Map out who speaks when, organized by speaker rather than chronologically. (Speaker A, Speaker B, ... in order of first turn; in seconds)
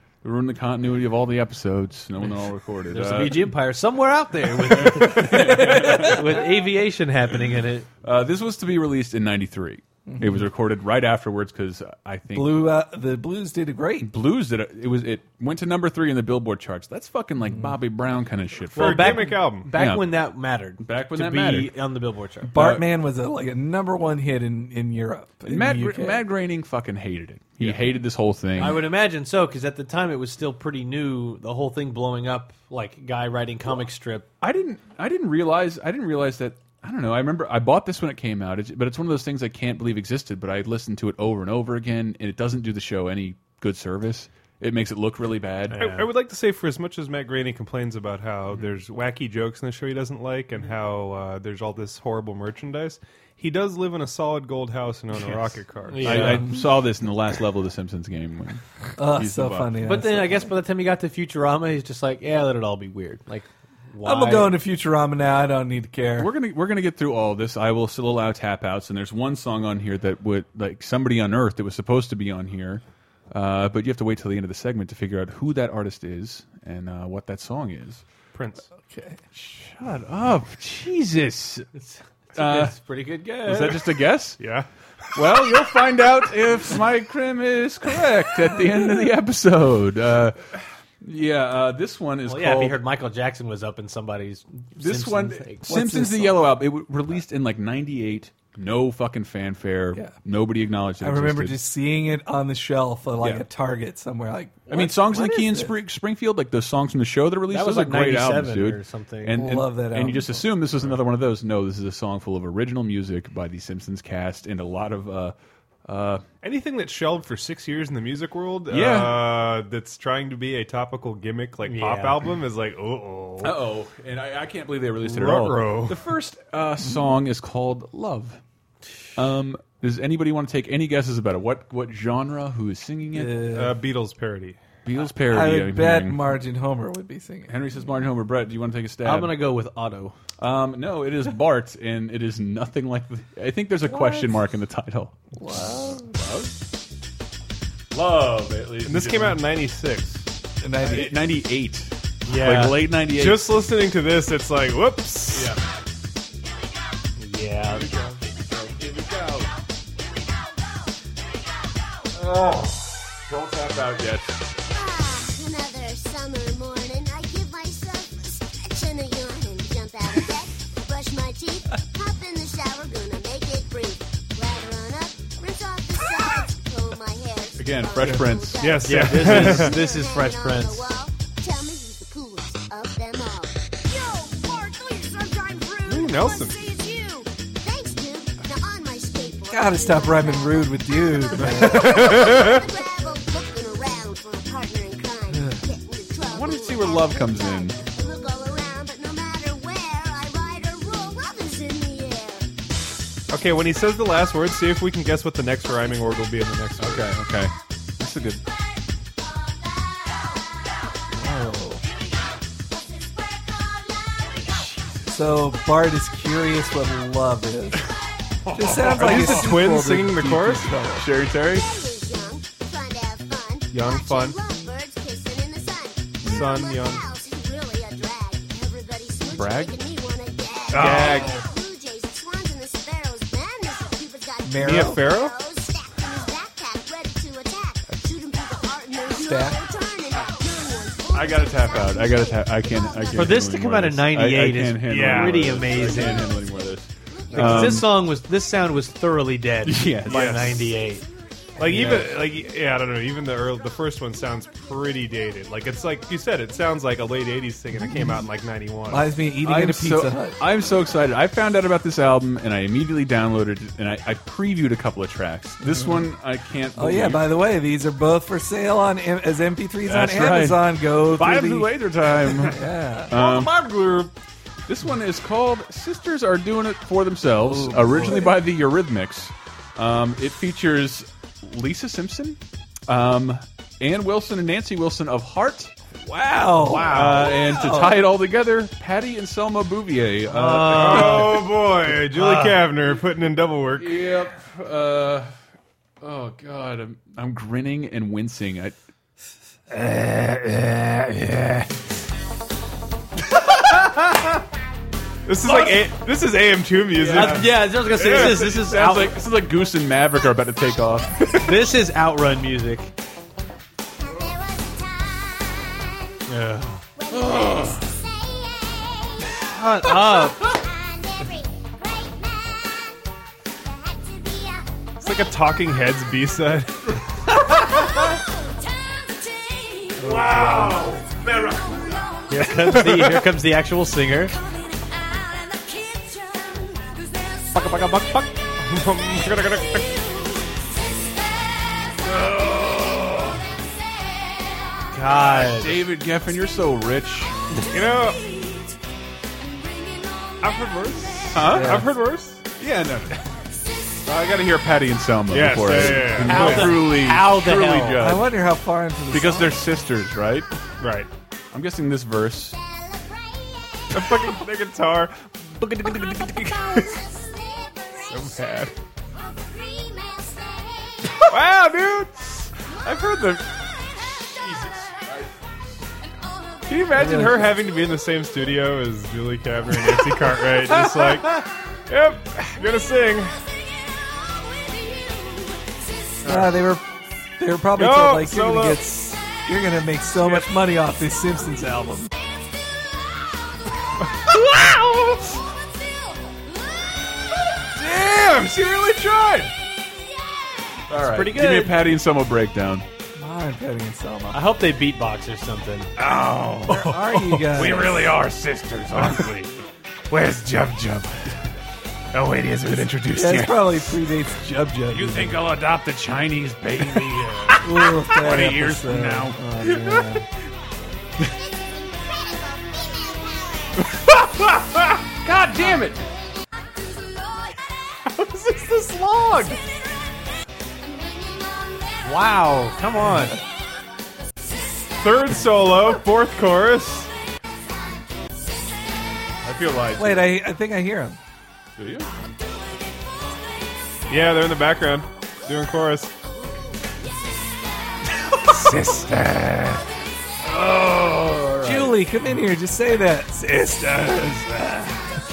Speaker A: 0.2-3.5, 4.6-6.3, 8.0-12.6, 14.0-20.2, 20.8-21.8, 22.5-22.9, 25.4-28.9, 34.4-45.9, 55.2-59.8, 66.2-78.0, 79.3-81.7, 82.3-82.8, 83.4-84.4, 85.1-90.5, 91.0-92.8, 94.8-101.6, 103.2-103.5, 104.7-116.2, 118.7-119.3, 123.4-128.4, 129.1-133.4, 134.8-136.2, 137.5-139.4, 140.4-146.5, 147.9-149.4, 150.8-153.7, 155.3-155.6, 157.6-159.5, 162.1-164.5, 177.6-179.6, 196.2-197.8, 206.8-208.4, 218.7-219.5, 220.9-221.7, 229.3-229.8, 230.7-231.4, 241.1-248.0, 249.6-250.7, 251.6-252.2, 259.4-267.3, 269.8-273.8, 274.7-285.7, 286.6-291.7, 293.7-295.3, 296.0-298.8, 307.0-311.7, 317.1-317.8, 330.1-331.1, 345.1-347.4, 351.3-351.9, 352.6-353.1, 354.1-358.4, 359.1-360.5, 361.5-362.6, 372.8-375.6, 380.7-381.4, 400.9-402.9, 406.0-406.8, 407.5-409.5, 410.1-411.2, 412.1-413.6, 414.9-420.0, 424.0-424.6, 425.2-426.1, 439.4-440.4, 441.8-442.1, 449.4-449.6, 450.4-452.1
Speaker B: 2.9-7.9, 18.7-22.5, 27.6-27.9, 28.6-34.3, 45.7-46.1, 55.9-56.5, 59.8-64.6, 78.3-78.6, 81.8-83.9, 92.2-95.7, 107.5-109.4, 121.6-122.3, 139.0-140.2, 152.2-152.7, 157.2-157.9, 178.8-180.9, 243.1-246.3, 247.3-251.1, 290.2-291.6, 292.1-292.6, 299.9-300.6, 305.4-305.7, 307.0-309.2, 311.4-312.9, 316.3-316.8, 319.4-320.5, 332.3-334.3, 337.5-338.3, 344.9-345.8, 356.0-358.1, 400.9-401.8, 404.3-405.9, 432.0-433.4
Speaker C: 10.1-10.4, 12.3-14.1, 22.5-26.2, 56.2-56.6, 59.0-60.5, 64.0-66.3, 78.9-79.2, 95.7-96.4, 101.0-105.7, 109.3-110.5, 133.1-133.8, 135.2-137.5, 143.9-144.3, 145.4-146.1, 150.6-151.1, 189.5-192.2, 211.2-211.8, 215.1-217.9, 218.5-221.1, 234.4-235.1, 239.1-239.6, 258.9-260.4, 265.6-266.1, 266.8-271.9, 272.5-273.1, 277.4-278.4, 286.0-288.0, 330.2-330.6, 351.4-351.9, 358.0-359.6, 376.9-377.5, 386.2-386.9, 387.4-392.1, 403.1-404.4, 406.7-408.0, 413.1-415.4, 417.6-420.3, 440.0-441.2, 451.6-455.1
Speaker D: 18.7-19.7, 45.8-56.3, 84.4-84.7, 116.4-123.6, 125.0-126.0, 133.4-134.6, 148.8-150.2, 152.3-155.5, 178.6-179.8, 185.9-186.6, 191.5-192.7, 203.3-207.1, 218.5-220.7, 223.7-224.4, 226.2-227.1, 230.7-231.4, 234.6-235.3, 244.8-246.2, 247.3-247.8, 250.1-250.7, 251.6-259.1, 273.1-274.1, 286.6-287.5, 290.7-294.1, 305.2-308.6, 325.0-327.0, 330.1-331.0, 332.4-333.3, 338.6-340.0, 342.2-343.3, 347.7-348.2, 350.4-352.7, 355.3-356.8, 360.8-361.1, 363.9-367.0, 368.1-368.7, 371.3-372.2, 376.7-383.3, 386.2-386.6, 387.7-388.8, 390.1-390.5, 394.0-395.3, 397.6-399.5, 406.0-408.3, 409.0-409.3, 412.2-413.2, 428.0-429.6, 435.0-437.1, 444.1-446.1, 448.5-449.6
Speaker E: 164.7-202.5, 221.4-243.5, 314.0-316.2, 316.9-319.3, 320.3-322.9, 323.7-325.2, 327.6-329.9, 331.8-332.2, 336.0-336.8, 362.6-363.9, 366.7-368.3, 369.3-371.2, 421.4-423.9, 427.2-427.5, 430.9-431.9